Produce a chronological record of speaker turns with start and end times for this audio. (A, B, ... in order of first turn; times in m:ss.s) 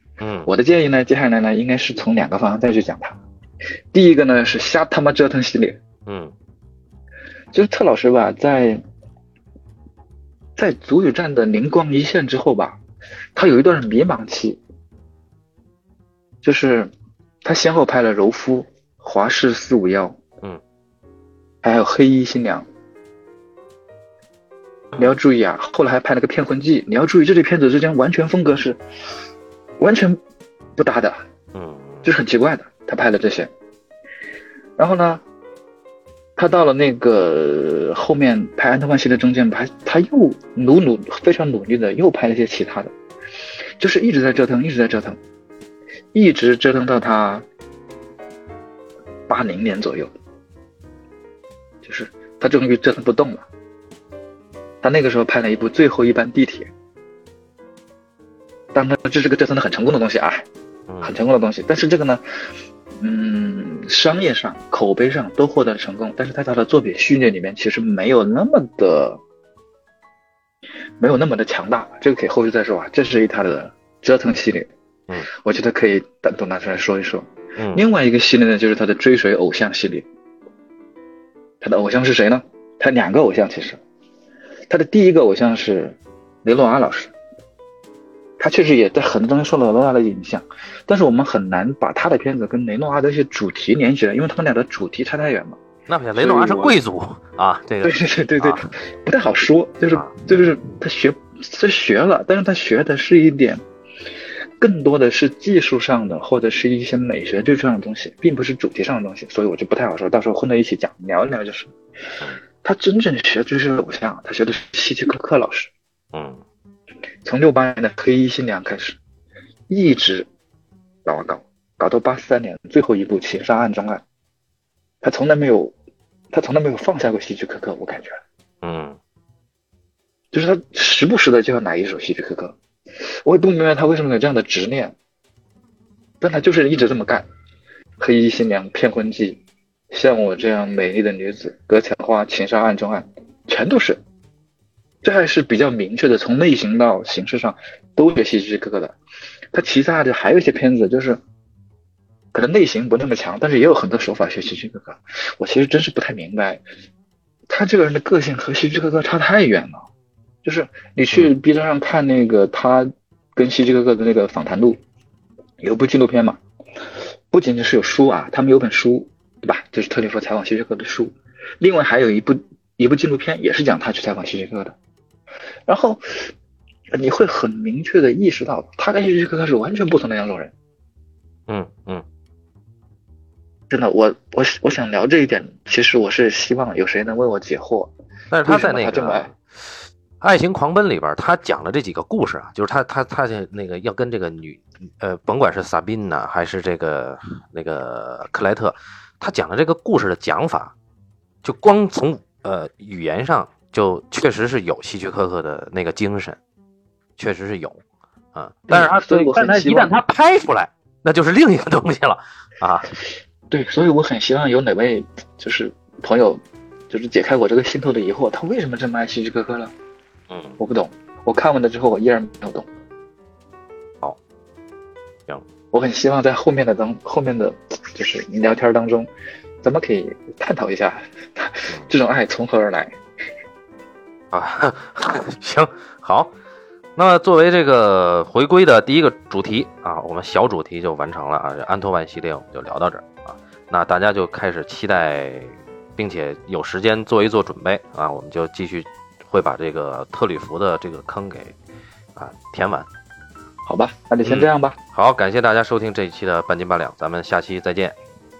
0:00.2-0:00.5 A
0:00.5-0:03.2 B
0:03.9-0:05.8 B
0:06.1-0:06.3 A
0:07.5-0:08.8 B
0:10.6-0:12.8 B
0:13.4-0:14.6 B
0:16.4-0:16.9 B
0:17.4-0:20.2 B
0:21.6-0:22.7 B
0:25.0-0:28.8 B
0:29.8-0:30.2 B
0:30.8-0:31.2 B
0:31.5-0:32.1 A
0:32.0-0:33.5 B
0:34.8-0:35.2 B
0:36.4-0:42.9 B
0:43.8-0:45.2 B
0:46.1-0:47.5 B
0:49.3-0:50.1 B
0:51.8-0:53.5 B
0:54.8-0:56.7 B
0:58.7-1:00.5 B
1:00.9-1:01.2 A
1:01.0-1:02.2 B
1:03.0-1:09.2 B
1:11.0-1:14.7 B
1:15.2-1:20.1 B
1:17.6-1:17.8 A
1:21.6-1:23.8 B
1:24.7-1:27.1 B
1:28.4-1:35.6 B
1:35.9-1:38.6 A
1:36.2-1:36.8 B
1:37.8-1:43.6 B
1:39.9-1:40.3 A
1:44.6-1:51.7 B
1:52.6-1:55.7 B
1:56.1-1:56.4 A
1:57.2-1:59.0 B
1:59.7-2:00.3 B
2:01.0-2:04.0 B
2:05.0-2:05.8 B
2:06.3-2:08.2 B
2:08.6-2:09.0 A
2:10.3-2:12.6 B
2:13.2-2:15.0 B
2:16.2-2:17.3 B
2:18.0-2:24.0 B
2:25.0-2:29.0 B
2:29.5-2:31.2 B
2:32.3-2:36.6 B
2:37.5-2:39.8 B
2:40.4-2:44.8 B
2:45.6-2:46.4 B
2:47.3-2:54.8 B
2:55.7-2:56.3 B
2:56.9-3:00.5 B
3:01.5-3:02.0 A
3:03.7-3:07.9 B
3:08.3-3:20.7 A
3:08.4-3:09.3 B
3:21.4-3:26.4 A
3:27.2-3:27.8 A
3:28.3-3:33.0 A
3:28.7-3:30.0 B
3:33.5-3:39.7 B
3:40.3-3:40.6 A
3:40.6-3:42.7 B
3:45.7-3:49.1 B
3:49.6-3:53.0 B
3:54.3-3:56.3 A
3:57.0-4:11.6 A
4:12.2-4:12.9 A
4:13.7-4:14.8 B
4:14.2-4:18.0 A